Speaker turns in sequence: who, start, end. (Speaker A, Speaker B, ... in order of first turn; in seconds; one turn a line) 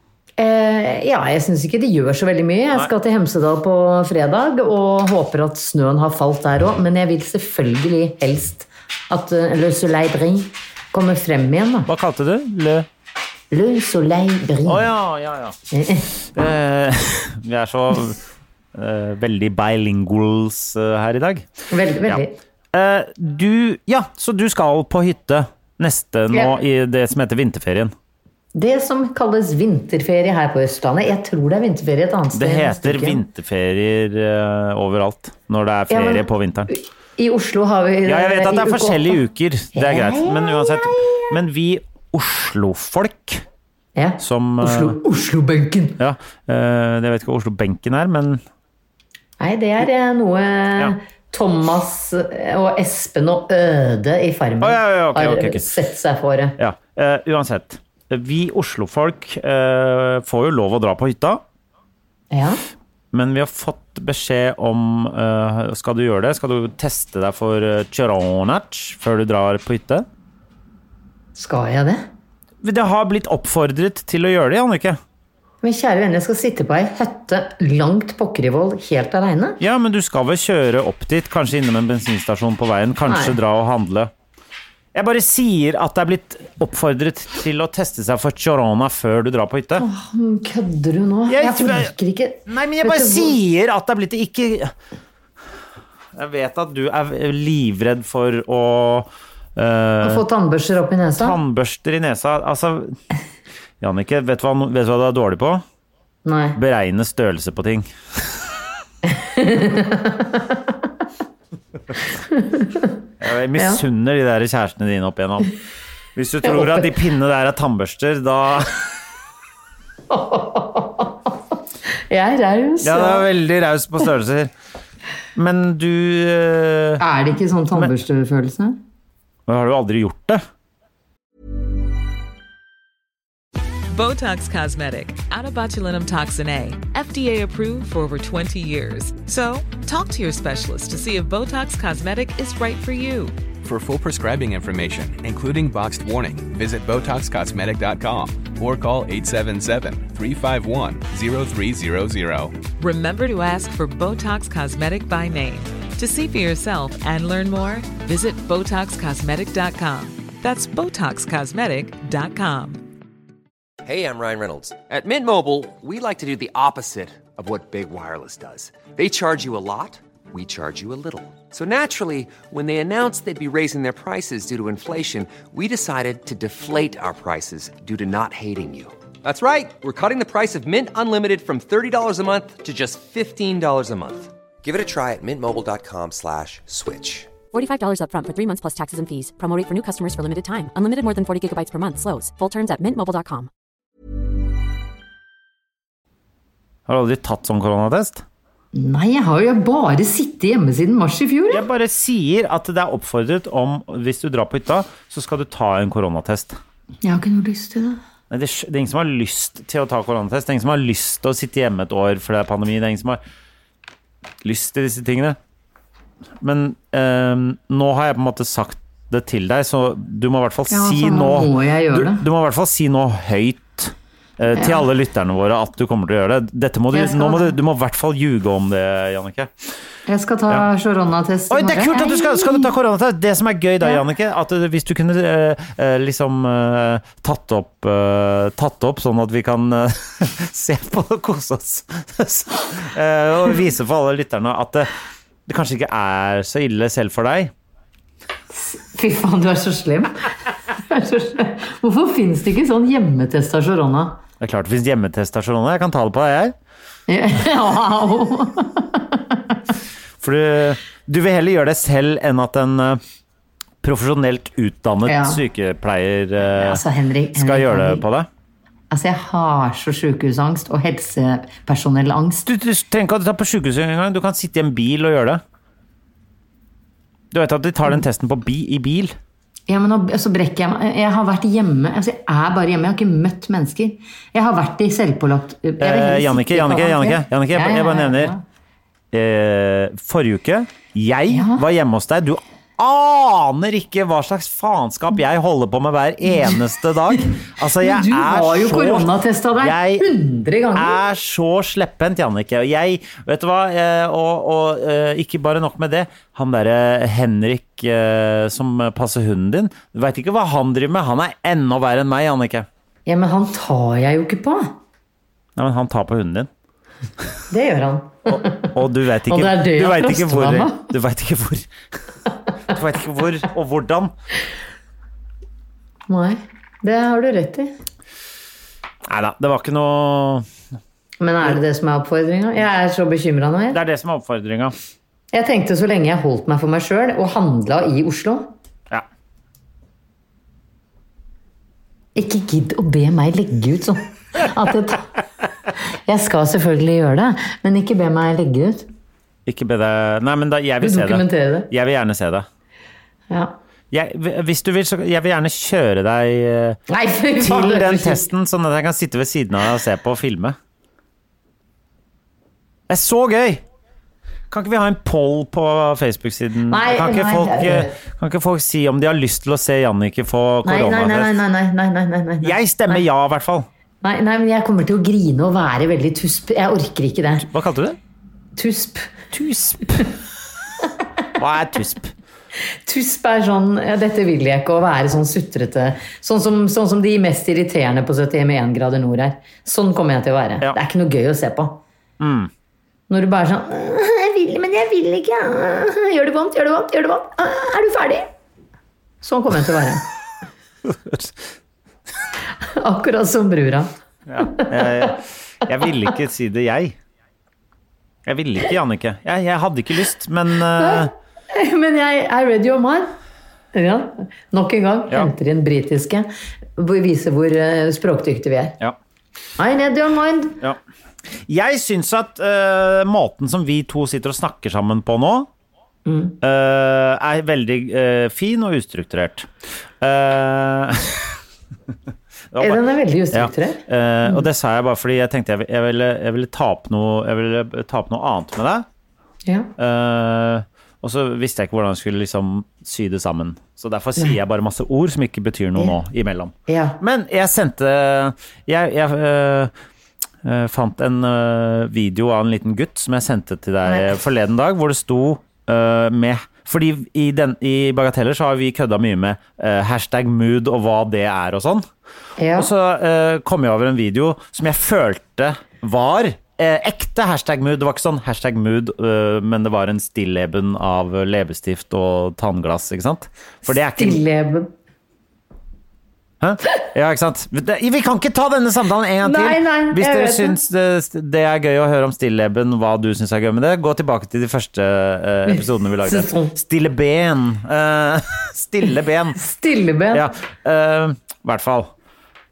Speaker A: 0.4-11.9
Speaker B: 11.9-12.9
Speaker A: 13.5-14.8
Speaker B: 14.6-15.6
Speaker A: 15.7-16.1
Speaker B: 16.2-18.2
Speaker B: 18.7-21.5
Speaker A: 21.7-22.4
Speaker B: 22.7-27.9
Speaker A: 28.5-33.2
Speaker B: 32.3-36.7
Speaker A: 35.9-39.2
Speaker B: 38.0-43.4
Speaker A: 39.7-41.3
Speaker A: 44.0-46.0
Speaker B: 44.2-45.0
Speaker B: 46.0-48.4
Speaker A: 49.4-56.5
Speaker B: 54.6-55.7
Speaker B: 56.6-61.4
Speaker A: 62.3-62.6
Speaker B: 63.1-70.0
Speaker A: 71.3-72.0
Speaker B: 72.6-75.0
Speaker A: 75.6-79.6
Speaker B: 79.6-84.1
Speaker A: 83.1-83.3
Speaker B: 84.9-89.8
Speaker A: 89.8-93.3
Speaker B: 91.3-91.9
Speaker B: 92.5-94.7
Speaker B: 96.1-100.2
Speaker A: 100.0-101.4
Speaker B: 101.2-103.0
Speaker B: 103.8-105.6
Speaker A: 106.2-106.6
Speaker B: 106.5-108.2
Speaker A: 109.1-110.6
Speaker A: 112.3-112.9
Speaker B: 113.2-115.5
Speaker A: 113.5-113.8
Speaker B: 116.2-118.8
Speaker A: 116.4-116.9
Speaker A: 120.1-121.3
Speaker A: 122.1-123.3
Speaker B: 122.8-124.5
Speaker B: 125.3-127.0
Speaker A: 127.0-128.8
Speaker B: 129.5-130.4
Speaker C: 133.9-143.3
Speaker D: 143.6-152.7
Speaker C: 152.7-162.9
Speaker E: 163.8-187.3
Speaker F: 187.5-193.5
Speaker B: 196.9-198.2
Speaker A: 198.7-201.6
Speaker B: 201.5-206.6
Speaker A: 207.0-208.0
Speaker B: 208.3-213.2
Speaker B: 214.4-215.4
Speaker B: 216.4-229.5
Speaker A: 220.7-222.2
Speaker A: 224.5-224.8
Speaker A: 226.9-227.5
Speaker A: 230.1-232.7
Speaker B: 231.5-244.9
Speaker B: 245.5-247.5
Speaker A: 248.5-250.1
Speaker A: 250.7-254.2
Speaker B: 254.4-256.5
Speaker A: 257.1-259.4
Speaker B: 260.2-263.0
Speaker B: 263.8-268.3
Speaker A: 265.1-265.4
Speaker A: 266.5-268.0
Speaker A: 268.9-272.4
Speaker B: 272.4-275.4
Speaker B: 277.3-279.1
Speaker A: 279.7-288.4
Speaker B: 285.8-288.3
Speaker B: 289.1-300.1
Speaker A: 291.3-291.6
Speaker A: 297.8-301.0
Speaker B: 300.7-312.7
Speaker A: 313.1-314.7
Speaker B: 315.6-316.5
Speaker A: 317.5-318.7
Speaker B: 318.3-321.7
Speaker A: 319.3-320.9
Speaker B: 322.7-324.1
Speaker A: 326.1-327.7
Speaker B: 329.1-330.4
Speaker A: 331.2-333.8
Speaker B: 333.7-334.7
Speaker A: 335.3-338.5
Speaker A: 342.1-345.1
Speaker A: 346.1-348.9
Speaker B: 349.4-352.4
Speaker A: 350.8-351.7
Speaker A: 353.3-353.5
Speaker B: 353.9-356.8
Speaker A: 356.9-358.2
Speaker B: 357.4-360.6
Speaker B: 362.9-363.6
Speaker B: 364.5-371.4
Speaker A: 366.7-367.9
Speaker A: 370.6-373.0
Speaker B: 372.4-373.7
Speaker A: 374.0-377.5
Speaker B: 377.5-378.0
Speaker A: 378.6-379.1
Speaker B: 379.3-380.1
Speaker B: 381.4-382.1
Speaker A: 382.9-391.8
Speaker B: 392.2-392.5
Speaker A: 393.1-398.3
Speaker A: 399.2-400.0
Speaker B: 400.8-401.3
Speaker A: 402.6-403.9
Speaker B: 404.3-406.9
Speaker A: 404.4-405.1
Speaker B: 408.2-411.1
Speaker A: 410.7-413.1
Speaker A: 413.7-418.8
Speaker A: 419.6-420.6
Speaker B: 421.4-425.5
Speaker A: 426.1-426.4
Speaker B: 426.4-429.5
Speaker B: 430.0-431.4
Speaker B: 432.5-432.8
Speaker A: 432.6-434.4
Speaker B: 433.3-438.9
Speaker A: 439.4-439.7
Speaker B: 439.8-449.7
Speaker A: 446.7-447.0
Speaker B: 450.4-461.9
Speaker A: 453.9-454.1
Speaker A: 462.4-462.7
Speaker B: 462.5-474.2
Speaker A: 473.9-474.7
Speaker B: 476.4-489.4
Speaker A: 479.2-480.6
Speaker A: 485.5-486.5
Speaker A: 489.4-490.2
Speaker B: 490.1-491.9